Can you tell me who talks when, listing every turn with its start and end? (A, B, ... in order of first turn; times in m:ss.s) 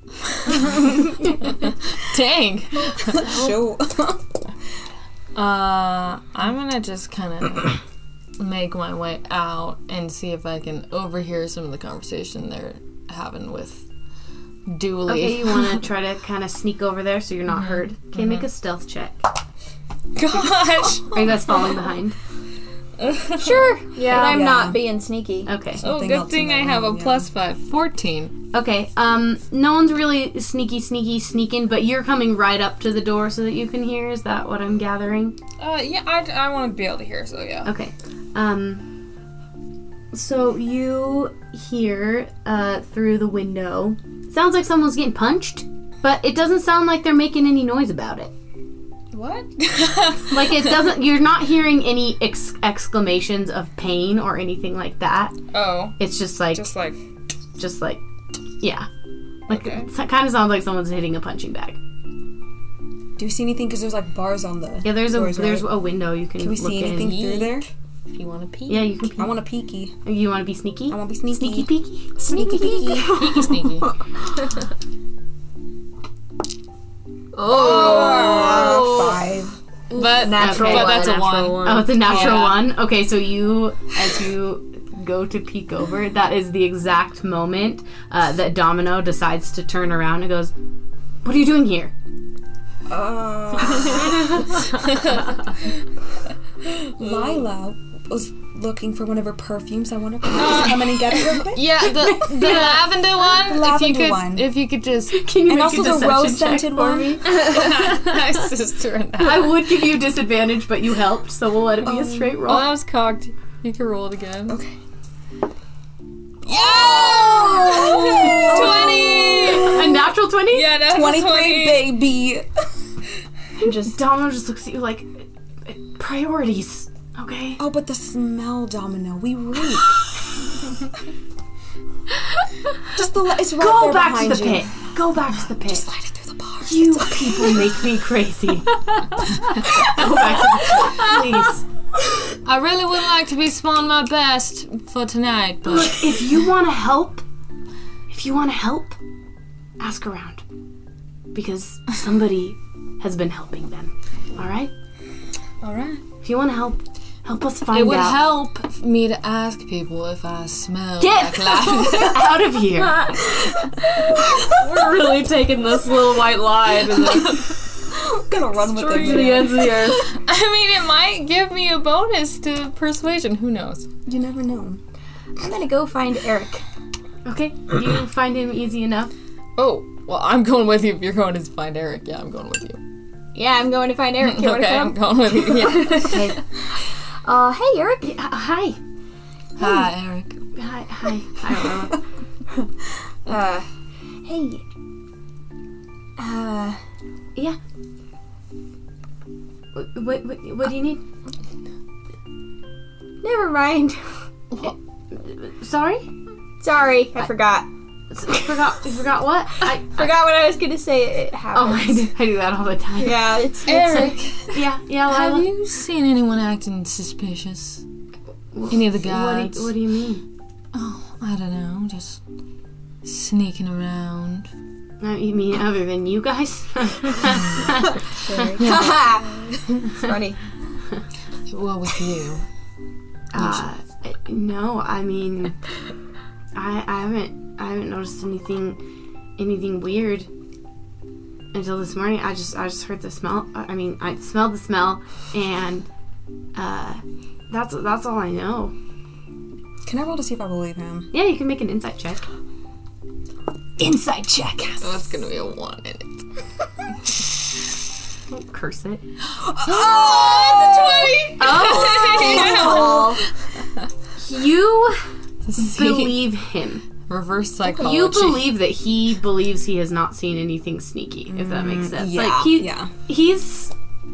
0:00.4-0:01.0 A
0:00.5-0:03.5 B
0:03.0-0:04.2 C
0:05.3-0:07.8 B
0:08.4-0:13.8 B
0:14.7-0:15.8 B
0:15.1-0:19.2 D
0:17.5-0:18.4 B
0:20.2-0:21.5 B
0:21.0-0:22.2 D
0:23.0-0:24.4 B
0:23.4-0:25.5 A
0:24.1-0:24.9 C
0:25.4-0:25.8 D
0:25.7-0:27.3 C
0:25.8-0:28.3 B
0:28.5-0:35.3 D
0:35.6-0:37.7 B
0:37.6-0:38.8 D
0:40.1-0:48.3 D
0:49.1-0:50.5 B
0:50.3-0:55.4 D
0:55.5-0:56.0 B
0:56.0-0:56.6 D
0:56.5-0:57.0 B
0:57.6-0:58.0 D
0:58.6-0:58.9 D
0:59.5-1:01.8 D
0:59.5-0:59.9 B
1:03.2-1:05.8 C
1:04.8-1:07.2 D
1:06.4-1:07.7 C
1:06.9-1:08.9 B
1:08.7-1:09.3 D
1:09.0-1:10.0 C
1:10.0-1:13.4 D
1:10.9-1:11.7 C
1:12.3-1:13.5 C
1:12.4-1:12.7 A
1:13.0-1:13.9 B
1:17.4-1:19.2 B
1:17.5-1:19.6 C
1:19.9-1:22.7 B
1:19.9-1:22.3 E
1:20.3-1:30.5 D
1:31.2-1:31.9 D
1:32.9-1:34.4 C
1:36.7-1:44.5 C
1:40.3-1:45.3 B
1:42.4-1:42.8 D
1:45.1-1:47.6 D
1:45.5-1:47.3 C
1:47.2-1:49.9 B
1:49.2-1:52.7 D
1:52.4-1:54.6 B
1:54.5-1:54.8 C
1:56.4-2:00.1 C
1:56.4-2:02.0 B
1:58.5-2:00.7 D
2:00.8-2:02.5 C
2:03.6-2:07.6 D
2:07.6-2:10.0 C
2:12.9-2:14.7 C
2:13.5-2:15.8 D
2:15.6-2:17.8 C
2:16.6-2:18.8 D
2:19.5-2:21.6 D
2:22.4-2:26.2 B
2:25.6-2:27.2 D
2:28.1-2:29.0 D
2:29.8-2:30.4 D
2:31.3-2:34.7 D
2:35.6-2:36.0 B
2:36.2-2:38.4 D
2:37.7-2:42.4 B
2:41.0-2:43.1 D
2:43.2-2:43.5 B
2:44.4-2:46.0 B
2:44.5-2:47.4 E
2:46.8-2:47.6 B
2:47.9-2:49.6 C
2:48.7-2:53.9 B
2:48.9-2:49.9 D
2:49.1-2:50.0 E
2:54.0-2:54.8 C
2:55.4-2:56.6 A
2:57.2-2:59.1 D
2:59.6-3:02.8 B
3:03.3-3:06.2 A
3:04.2-3:06.3 B
3:06.0-3:06.4 D
3:07.2-3:08.2 A
3:08.0-3:08.8 D
3:09.6-3:10.4 B
3:10.6-3:12.0 D
3:13.2-3:13.7 A
3:14.2-3:14.6 A
3:16.2-3:16.8 A
3:19.7-3:21.0 D
3:23.2-3:24.0 A
3:24.6-3:26.1 D
3:26.6-3:27.7 A
3:28.1-3:30.1 D
3:28.3-3:28.5 A
3:29.6-3:32.1 A
3:31.5-3:33.3 D
3:33.0-3:34.2 A
3:33.6-3:37.8 B
3:34.5-3:35.5 D
3:38.5-3:40.2 D
3:38.7-3:39.7 B
3:40.7-3:42.2 B
3:43.0-3:44.5 B
3:45.0-3:48.5 D
3:48.2-3:49.0 C
3:48.6-3:49.0 B
3:48.6-3:50.5 A
3:51.5-3:52.4 B
3:53.3-3:55.6 D
3:56.5-3:58.8 D
3:59.4-4:00.3 D
4:01.5-4:05.9 D
4:06.5-4:08.7 D
4:09.8-4:11.1 C
4:11.1-4:12.2 D
4:13.8-4:15.0 D
4:14.8-4:16.2 B
4:18.3-4:19.0 D
4:19.5-4:21.5 C
4:19.6-4:23.2 B
4:21.4-4:23.0 D
4:22.0-4:23.2 A
4:24.2-4:25.0 D
4:25.4-4:26.2 B
4:25.6-4:26.8 D
4:27.1-4:28.5 B
4:27.6-4:33.7 D
4:31.3-4:32.9 C